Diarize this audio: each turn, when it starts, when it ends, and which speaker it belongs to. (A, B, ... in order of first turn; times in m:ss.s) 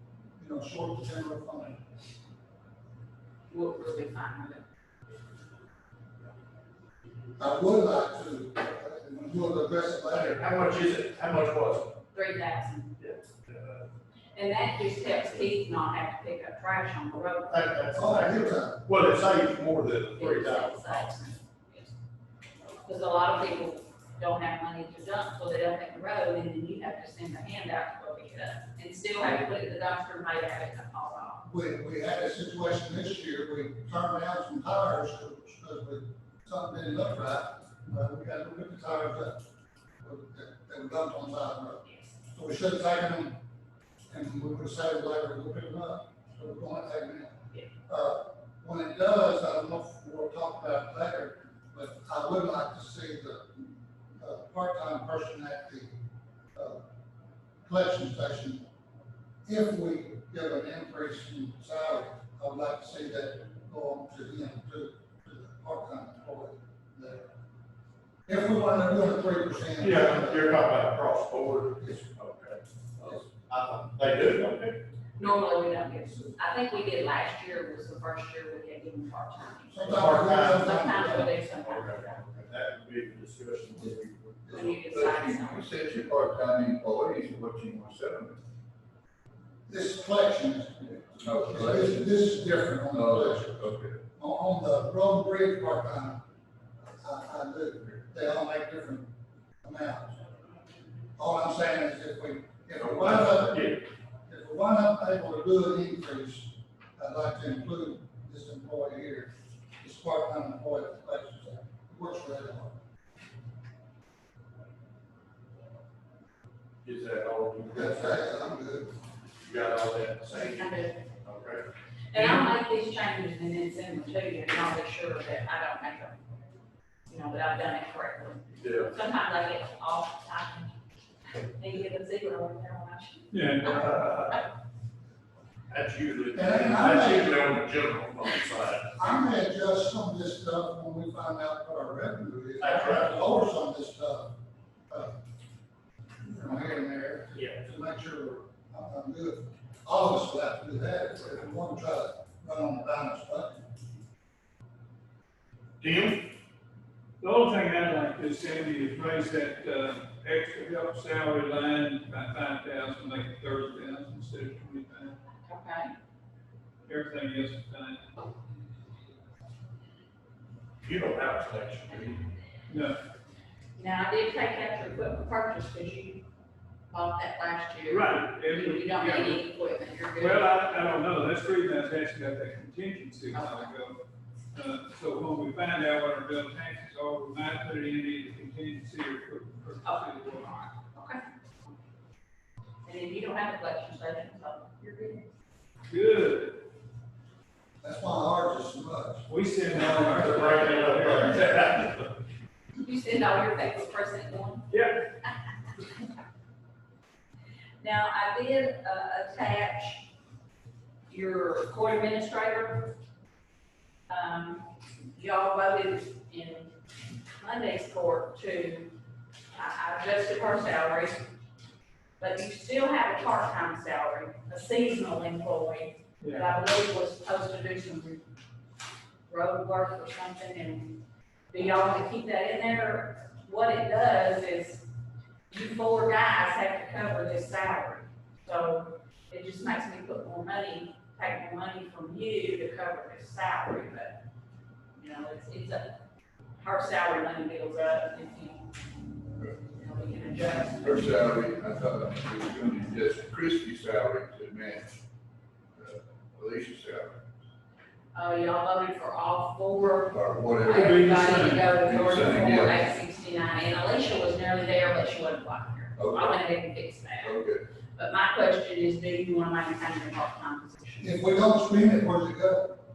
0:00.4-0:01.8 A
0:03.5-0:04.6 B
0:07.4-0:10.4 A
0:10.2-0:11.9 C
0:12.1-0:13.0 B
0:13.0-0:13.8 C
0:14.4-0:17.7 B
0:17.5-0:21.1 C
0:17.9-0:18.8 A
0:20.1-0:22.0 B
0:22.8-0:31.4 B
0:31.4-0:39.4 A
0:40.0-0:43.4 A
0:44.1-0:56.0 A
0:56.6-0:56.8 A
0:57.6-0:58.7 A
0:59.5-1:07.3 A
1:08.3-1:10.5 A
1:09.8-1:14.8 C
1:15.2-1:22.2 B
1:19.7-1:21.3 A
1:19.8-1:20.7 C
1:21.6-1:24.7 C
1:24.5-1:25.7 B
1:24.9-1:28.4 D
1:29.7-1:33.6 A
1:31.2-1:32.1 D
1:32.9-1:34.0 D
1:34.2-1:36.2 A
1:36.9-1:39.1 A
1:39.6-1:40.2 A
1:41.2-1:52.8 A
1:42.8-1:43.8 C
1:56.8-1:58.5 C
1:57.7-1:58.9 A
1:59.4-2:01.7 C
2:00.4-2:01.0 B
2:02.1-2:06.2 B
2:07.1-2:10.8 B
2:08.6-2:09.0 C
2:11.3-2:13.9 B
2:13.3-2:14.4 E
2:15.7-2:19.1 C
2:16.3-2:17.5 A
2:19.0-2:24.3 A
2:22.6-2:23.2 C
2:24.9-2:25.2 A
2:26.3-2:33.6 A
2:35.8-2:36.2 C
2:37.2-2:45.2 E
2:45.4-2:45.9 B
2:46.9-2:48.0 E
2:50.8-2:52.2 C
2:52.7-2:53.0 E
2:53.8-2:56.2 B
2:56.9-3:00.6 B
2:57.9-2:59.4 E
3:00.2-3:04.0 E
3:03.3-3:03.7 B
3:04.5-3:10.5 E
3:09.8-3:11.2 B
3:12.8-3:15.3 B
3:15.9-3:16.6 E
3:17.8-3:19.3 A
3:19.3-3:21.6 E
3:19.8-3:22.1 C
3:22.8-3:24.7 B
3:24.7-3:25.0 E
3:27.8-3:30.1 B
3:31.1-3:33.0 B
3:34.1-3:36.8 B
3:37.3-3:38.9 B
3:39.5-3:41.3 B
3:42.2-3:48.2 B
3:46.2-3:46.5 E
3:49.3-3:51.0 B
3:51.5-3:54.9 B
3:55.5-4:04.2 B
4:05.0-4:06.0 B
4:06.6-4:08.7 B
4:09.4-4:11.2 B
4:10.8-4:14.9 D
4:15.8-4:17.2 D
4:18.1-4:27.4 B
4:20.1-4:22.8 D
4:20.7-4:22.3 E
4:26.0-4:26.4 D
4:27.2-4:27.6 D
4:28.0-4:31.2 B
4:31.0-4:32.8 A